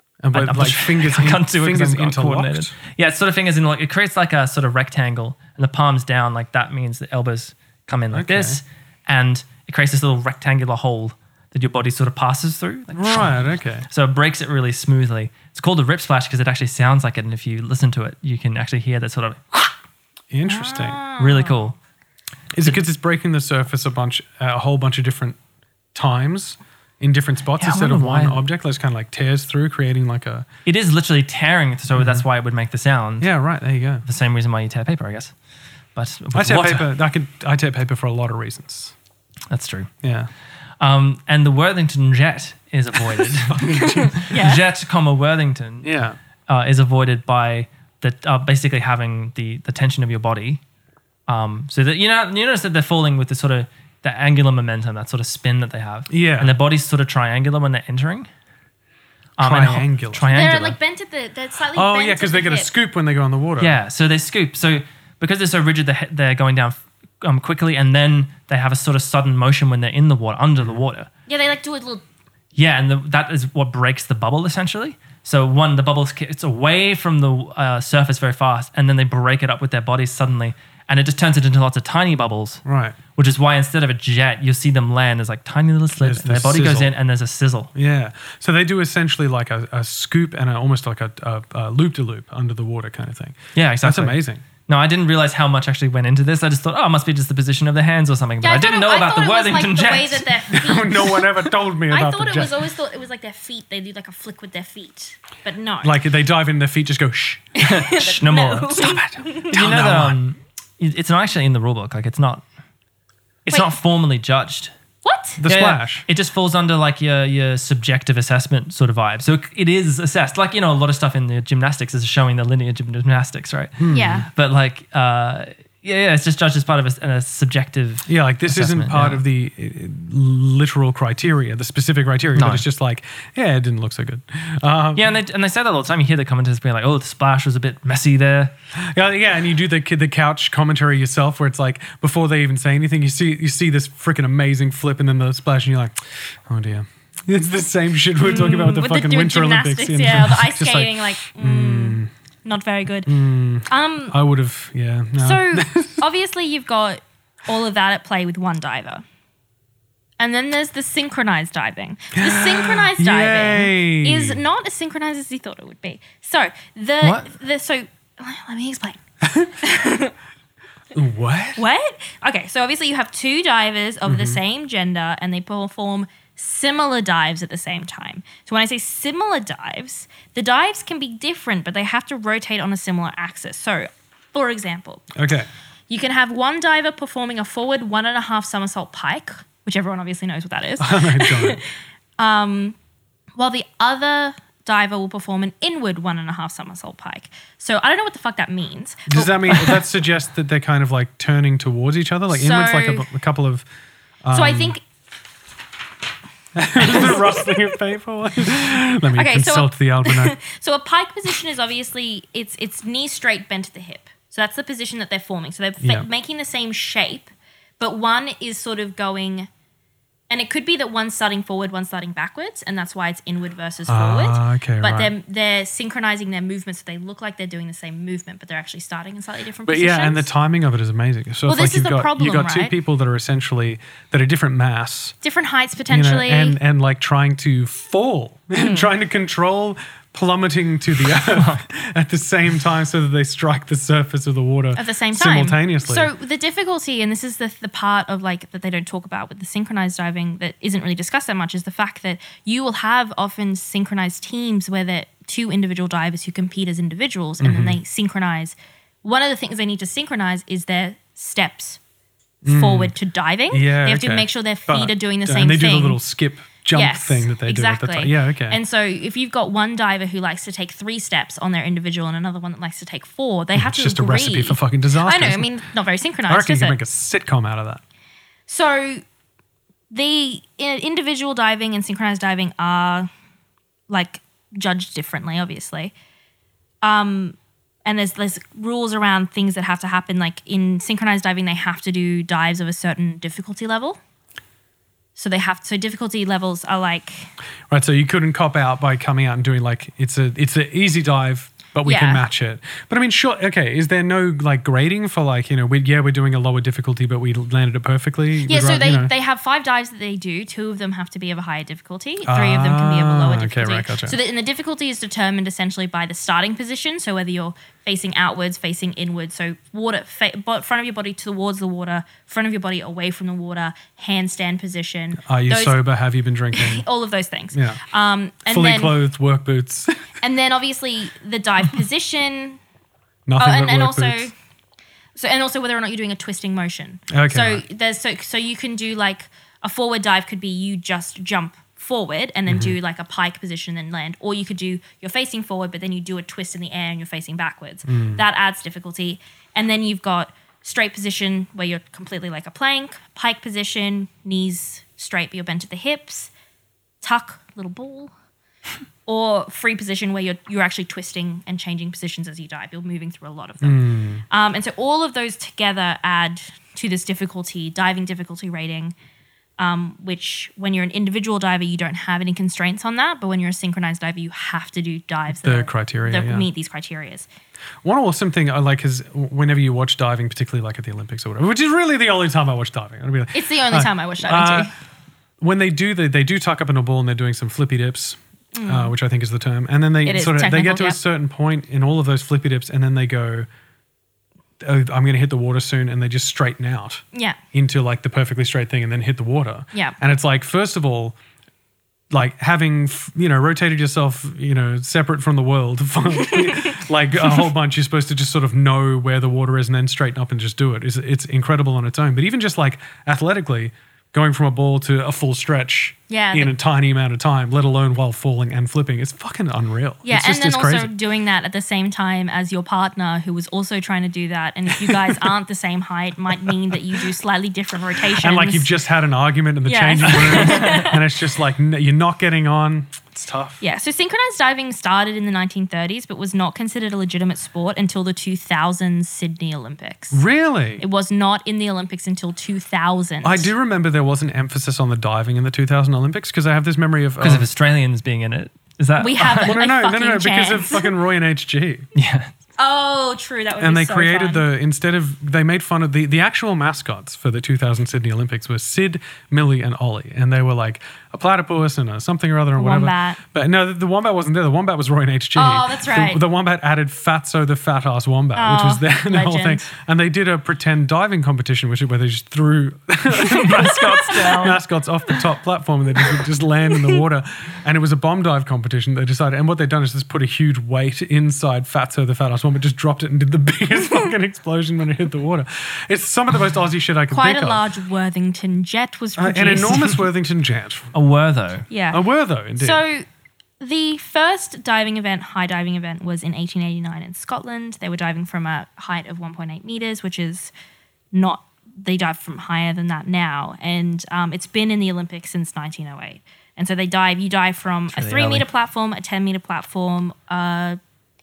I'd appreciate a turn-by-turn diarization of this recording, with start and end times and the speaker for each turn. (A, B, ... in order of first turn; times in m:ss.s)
0:00.2-0:02.7 A
0:00.3-0:19.8 B
0:08.1-0:08.6 A
0:12.9-0:13.9 A
0:20.3-0:21.0 A
0:20.4-0:21.6 C
0:21.2-0:21.8 B
0:22.5-0:25.4 A
0:25.9-0:30.4 A
0:27.6-0:28.4 B
0:30.6-0:33.3 B
0:32.0-0:32.2 A
0:33.2-0:34.0 A
0:34.0-0:35.3 B
0:35.9-0:36.9 B
0:36.3-0:38.9 A
0:39.5-0:39.9 B
0:40.0-0:40.3 A
0:40.8-0:45.9 B
0:43.4-0:44.3 A
0:43.8-0:44.6 C
0:45.8-0:46.2 A
0:46.5-0:50.6 B
0:51.3-0:58.3 B
0:56.1-0:56.5 A
0:59.4-1:00.8 B
0:59.4-1:00.3 A
1:00.3-1:02.7 C
1:01.7-1:03.7 A
1:03.6-1:11.1 B
1:11.3-1:12.0 C
1:12.6-1:22.6 B
1:22.6-1:23.0 A
1:23.1-1:27.7 B
1:26.0-1:26.9 A
1:27.7-1:34.4 A
1:33.6-1:40.3 B
1:38.4-1:46.0 C
1:40.5-1:42.6 A
1:45.8-1:47.5 A
1:47.6-1:49.6 C
1:47.6-1:52.4 B
1:48.7-1:50.2 A
1:53.4-1:54.7 B
1:55.0-1:55.4 C
1:55.4-1:56.0 A
1:55.4-2:09.2 B
2:03.8-2:04.2 A
2:03.9-2:04.3 C
2:08.1-2:15.1 A
2:12.4-2:12.6 B
2:14.9-2:18.5 B
2:18.8-2:32.1 A
2:28.2-2:34.2 C
2:33.0-2:36.0 A
2:35.2-2:39.0 C
2:40.2-2:49.0 C
2:42.1-2:44.4 A
2:47.0-2:47.3 B
2:49.2-2:49.5 A
2:49.6-2:50.1 C
2:50.9-2:51.6 A
2:51.6-3:05.1 C
2:54.0-2:54.4 A
3:05.2-3:05.5 A
3:05.9-3:11.6 C
3:10.8-3:11.6 A
3:12.2-3:12.8 C
3:13.4-3:19.7 C
3:19.1-3:23.6 A
3:22.3-3:23.1 C
3:24.2-3:24.8 A
3:24.3-3:24.8 C
3:26.6-3:30.4 A
3:26.8-3:27.6 C
3:29.1-3:39.5 C
3:35.8-3:36.1 A
3:40.3-3:50.3 C
3:43.9-3:45.1 A
3:49.7-3:55.1 A
3:51.5-3:52.7 C
3:55.2-3:56.6 C
3:55.9-4:06.1 A
3:58.6-3:58.9 C
4:01.2-4:01.6 B
4:04.8-4:21.8 C
4:17.4-4:17.8 A
4:22.4-4:22.9 A
4:22.5-4:26.0 C
4:23.5-4:28.6 A
4:26.7-4:36.8 C
4:33.6-4:35.5 A
4:36.3-4:37.8 A
4:38.5-4:39.0 C
4:39.9-4:43.1 C
4:43.9-4:45.9 C
4:46.8-4:54.0 C
4:55.2-4:57.3 C
4:57.7-5:09.1 A
5:01.8-5:02.2 C
5:08.4-5:25.8 C
5:12.2-5:14.2 A
5:25.2-5:26.9 A
5:26.5-5:29.0 C
5:27.5-5:27.8 A
5:28.4-5:30.0 A
5:30.2-5:32.6 C
5:33.3-5:34.3 A
5:33.4-5:34.3 C
5:35.1-5:56.3 C
5:37.1-5:37.6 A
5:42.5-5:42.7 A
5:47.9-5:48.2 A
5:57.0-5:58.1 C
5:59.0-6:08.9 C
6:03.6-6:04.2 A
6:09.6-6:17.3 C
6:15.4-6:16.5 A
6:17.8-6:24.7 A
6:23.3-6:24.7 C
6:25.4-6:33.5 A
6:28.5-6:28.9 C
6:30.0-6:31.0 C
6:34.6-6:41.2 A
6:42.1-7:00.9 A
6:46.3-6:46.8 C
6:56.1-6:56.5 C
7:00.0-7:08.7 C
7:08.2-7:13.6 A
7:09.6-7:11.0 C
7:13.6-7:20.2 C
7:20.1-7:20.8 A
7:20.8-7:23.5 C
7:23.2-7:27.5 A
7:27.2-7:29.6 B
7:29.0-7:31.0 C
7:29.4-7:31.9 A
7:31.9-7:32.3 B
7:32.6-7:34.4 C
7:33.6-8:07.6 A
7:42.6-7:43.2 C
7:45.4-7:46.2 C
7:48.4-7:49.7 C
7:53.1-7:54.6 B
7:53.6-7:54.4 C
8:07.1-8:10.0 C
8:09.2-8:10.9 A
8:10.9-8:11.7 B
8:11.7-8:12.0 C
8:11.9-8:12.8 A
8:12.6-8:13.0 C
8:13.6-8:20.5 C
8:21.1-8:30.8 C
8:27.9-8:28.5 B